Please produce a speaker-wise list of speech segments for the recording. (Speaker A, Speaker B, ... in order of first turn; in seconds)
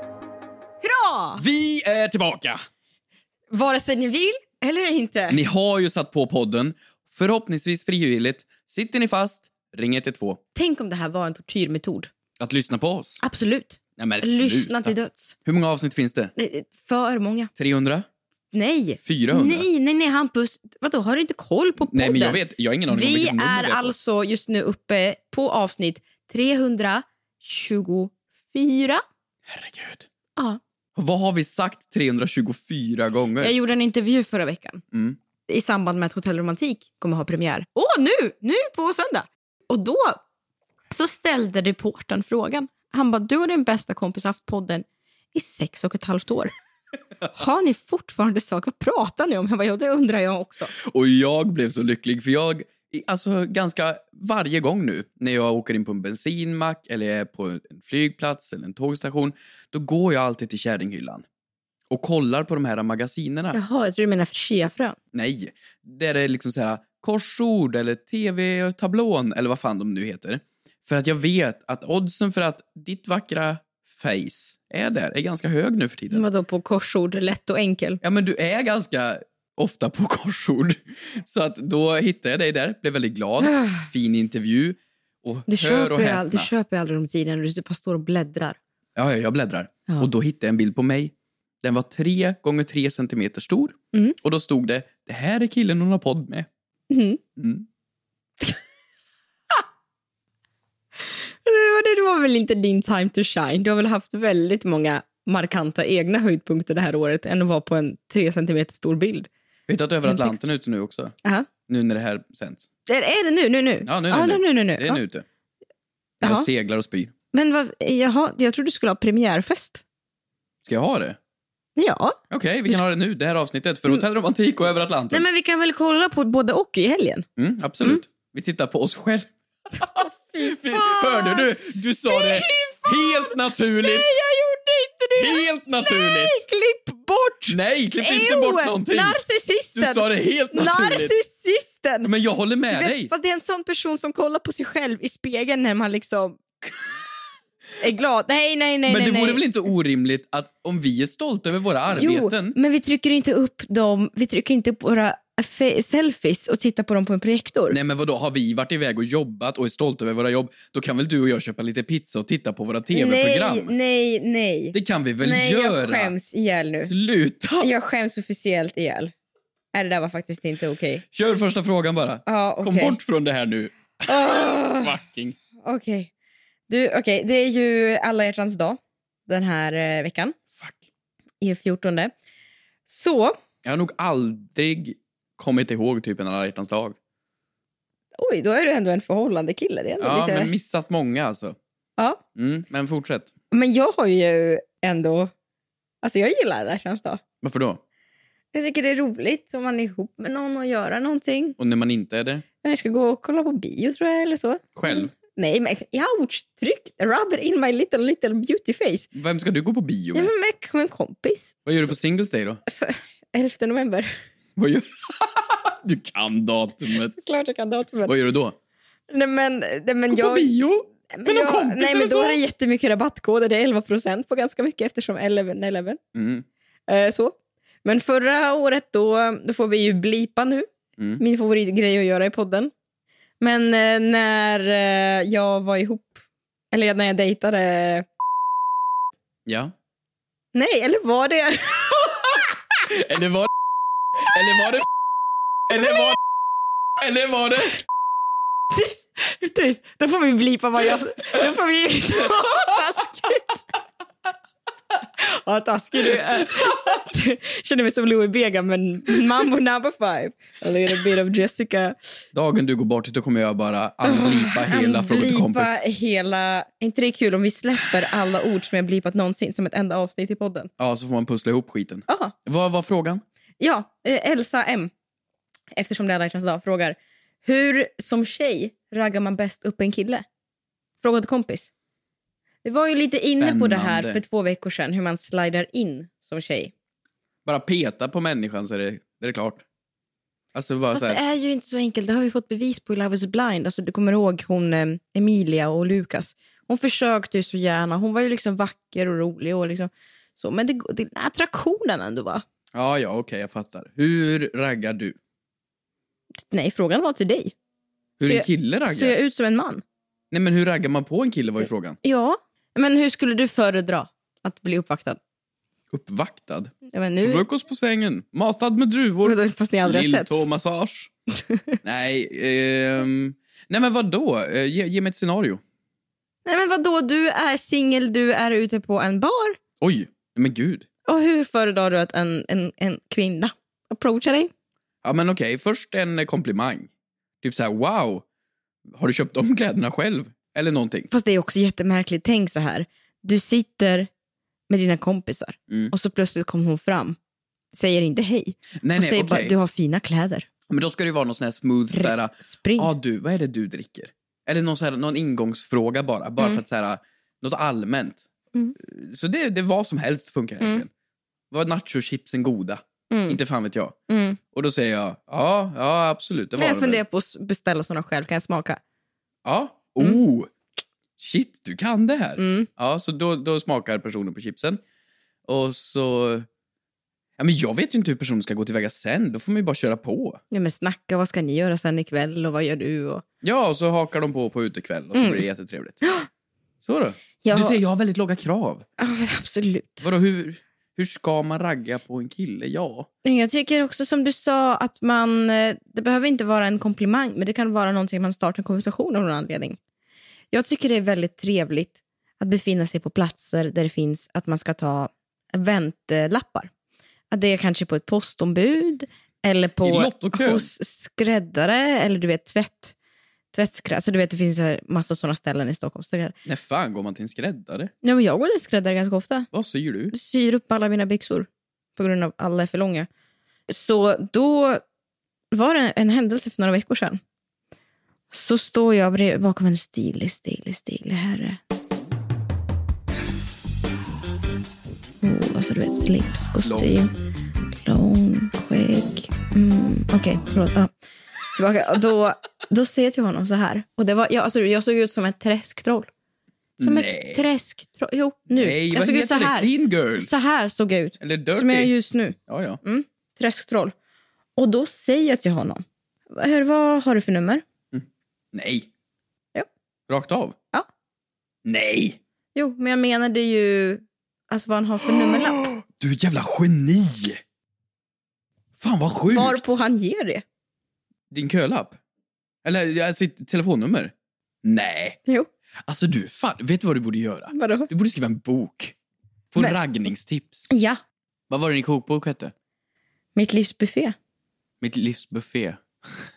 Speaker A: 0.8-1.4, 3.5-5.4, 10.6-12.1, 13.2-15.4, 16.4-17.5, 18.5-29.0, 33.4-34.8, 35.5-40.2, 40.9-46.5, 47.3-50.7, 63.5-65.0, 76.1-78.0, 83.4-83.9, 85.5-88.6, 96.9-97.2, 101.0-109.3, 110.0-110.4, 112.9-115.0, 116.2-116.5, 117.3-119.8, 121.8-122.8, 125.1-127.3, 129.8-131.5, 132.1-142.1, 142.7-146.4, 147.8-149.4, 151.9-157.8, 162.9-166.9, 167.6-169.1, 169.7-171.0, 172.3-173.0, 174.1-174.9, 175.6-176.1, 176.7-180.3, 181.4-182.1, 182.9-183.4, 188.2-190.5, 193.5-195.3, 196.0-197.2, 198.5-201.6, 202.6-209.1, 210.1-211.7, 212.7-214.1, 217.2-218.2, 219.1-220.5, 221.1-226.0, 226.9-230.7, 231.2-232.7, 233.4-238.1, 240.5-242.1, 248.7-253.6, 255.2-262.0, 264.0-270.7, 272.1-272.3, 273.6-274.9, 275.7-280.2, 281.0-281.7, 282.6-286.7, 290.9-302.4, 306.4-307.5, 308.2-309.8, 312.0-315.2, 316.9-317.4, 319.2-320.5, 321.5-321.8, 326.4-329.6, 331.1-334.5, 341.1-344.1, 344.7-347.2, 347.7-350.5, 351.9-352.9, 363.1-363.4, 364.1-364.4, 366.6-368.8, 372.4-372.7, 380.5-383.2, 385.1-385.4, 386.0-386.3, 387.4-387.8, 389.0-390.1, 393.2-399.8, 400.5-406.7, 407.3-412.9, 413.5-416.4, 418.0-419.5, 420.1-423.1, 423.7-424.8, 425.5-427.2, 428.3-431.6, 435.2-437.1, 437.7-440.9, 441.5-446.1, 446.8-453.9, 454.6-457.6, 462.6-465.7, 469.3-470.4, 477.5-477.9, 480.7-481.0, 483.4-484.1
Speaker B: 1.4-2.6, 5.3-10.4, 12.4-13.2, 14.0-14.9, 15.4-16.3, 17.6-18.1, 19.0-19.7, 21.8-23.9, 29.5-30.1, 31.0-33.5, 34.9-35.2, 50.8-61.2, 61.9-63.6, 65.1-76.2, 78.0-86.5, 89.0-96.5, 97.4-97.7, 109.7-111.2, 111.7-112.7, 113.8-115.2, 116.2-117.1, 120.6-121.2, 122.3-125.2, 127.4-134.2, 135.2-136.4, 137.5-139.2, 139.8-141.2, 142.0-143.1, 148.9-152.6, 157.7-163.7, 164.7-166.1, 166.8-167.7, 171.1-175.4, 180.6-180.9, 183.6-187.0, 190.0-191.6, 192.3-193.3, 197.4-197.8, 201.6-202.4, 204.8-205.1, 209.1-210.3, 211.7-212.6, 214.6-217.2, 218.1-218.6, 220.1-222.4, 226.1-226.5, 239.5-239.7, 242.9-243.5, 244.2-244.9, 245.7-246.2, 247.0-247.8, 262.3-265.8, 270.8-273.2, 282.9-284.2, 287.4-289.6, 290.5-291.2, 302.7-305.2, 308.2-309.1, 310.3-312.0, 315.9-321.1, 321.8-325.6, 329.8-330.9, 335.0-336.9, 337.4-338.2, 338.9-341.1, 348.8-349.5, 350.7-360.9, 361.5-364.0, 364.5-367.0, 369.4-370.5, 371.2-374.8, 375.5-376.5, 377.4-380.4, 383.4-386.0, 386.8-388.9, 390.0-393.1, 409.8-410.7, 416.4-417.9, 419.5-420.1, 436.6-437.0, 446.8-447.4, 448.5-450.3, 451.2-451.9, 452.5-452.8, 457.9-458.9, 460.1-460.6, 461.6-462.2, 465.6-467.4, 468.8-469.8, 471.3-472.0, 472.6-474.1, 474.6-475.2, 475.9-478.9, 479.5-480.7, 481.5-482.5, 484.8-486.3